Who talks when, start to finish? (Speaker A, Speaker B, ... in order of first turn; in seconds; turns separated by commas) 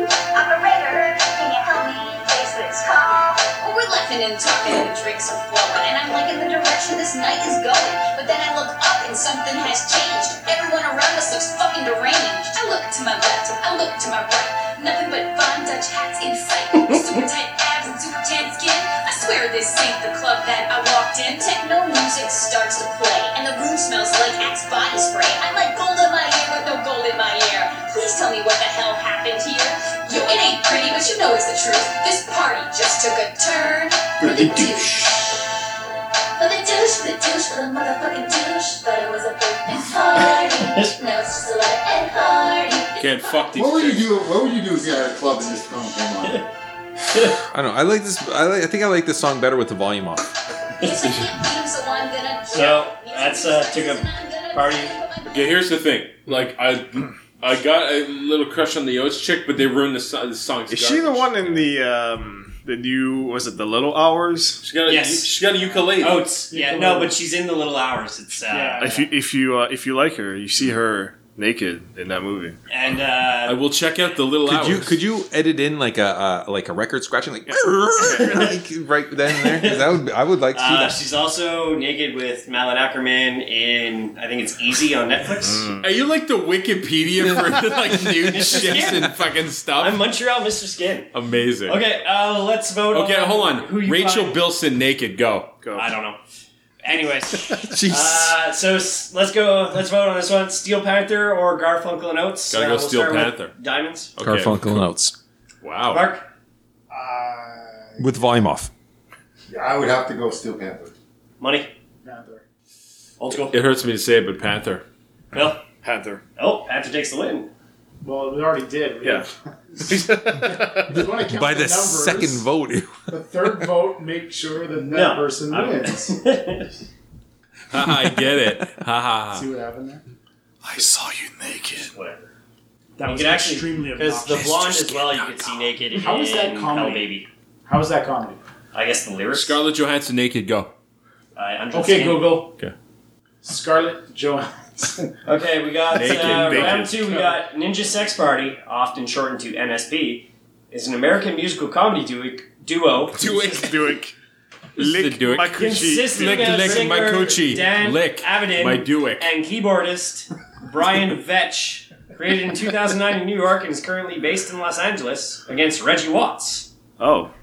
Speaker A: 0.3-35.2, Speaker B: 34.2-35.1, Speaker A: 36.4-43.5, Speaker B: 40.4-40.9, Speaker C: 43.0-44.1, Speaker D: 43.5-46.5, Speaker E: 47.5-50.3, Speaker A: 50.8-55.6, Speaker B: 52.5-55.0, Speaker C: 55.3-61.7, Speaker F: 60.7-64.6, Speaker C: 64.6-66.3, Speaker B: 64.9-65.3, Speaker B: 66.0-68.9, Speaker G: 66.5-67.2, Speaker G: 68.5-69.1, Speaker F: 68.8-72.6, Speaker B: 72.7-73.6, Speaker C: 73.5-75.0, Speaker E: 74.5-81.0, Speaker F: 77.4-78.6, Speaker B: 78.0-78.5, Speaker B: 79.3-79.9, Speaker B: 80.5-85.7, Speaker F: 85.5-85.8, Speaker C: 85.8-90.1, Speaker B: 88.3-89.2, Speaker B: 89.8-91.1, Speaker C: 91.1-91.8, Speaker B: 91.7-94.4, Speaker C: 92.9-95.5, Speaker F: 95.6-96.0, Speaker B: 95.7-96.2, Speaker B: 96.8-104.1, Speaker E: 97.6-98.4, Speaker C: 102.5-103.5, Speaker C: 104.2-104.9, Speaker E: 104.2-105.2, Speaker C: 105.6-106.1, Speaker B: 105.9-106.2, Speaker G: 106.9-107.9, Speaker E: 108.0-108.7, Speaker D: 109.5-110.9, Speaker B: 111.4-111.7, Speaker G: 112.0-112.4, Speaker B: 113.2-113.6, Speaker C: 113.3-114.8, Speaker B: 115.3-115.6, Speaker F: 115.8-116.2, Speaker B: 116.4-117.5, Speaker G: 118.0-122.5, Speaker F: 119.0-119.3, Speaker F: 119.8-120.9, Speaker E: 121.1-123.0, Speaker G: 123.1-126.2, Speaker B: 124.9-126.7, Speaker C: 127.7-129.5, Speaker G: 129.3-130.0, Speaker F: 130.6-131.9, Speaker B: 131.9-132.3, Speaker G: 133.0-134.9, Speaker B: 133.0-137.3, Speaker G: 135.9-137.1, Speaker G: 137.7-138.4, Speaker B: 138.7-139.6, Speaker C: 139.3-140.7, Speaker B: 141.4-142.4, Speaker G: 141.7-142.6, Speaker G: 143.4-145.1, Speaker B: 145.2-153.7, Speaker C: 145.9-147.2, Speaker F: 146.2-147.3, Speaker F: 153.2-154.1, Speaker F: 154.8-156.9, Speaker C: 154.8-159.3, Speaker B: 155.6-166.7, Speaker F: 167.0-167.3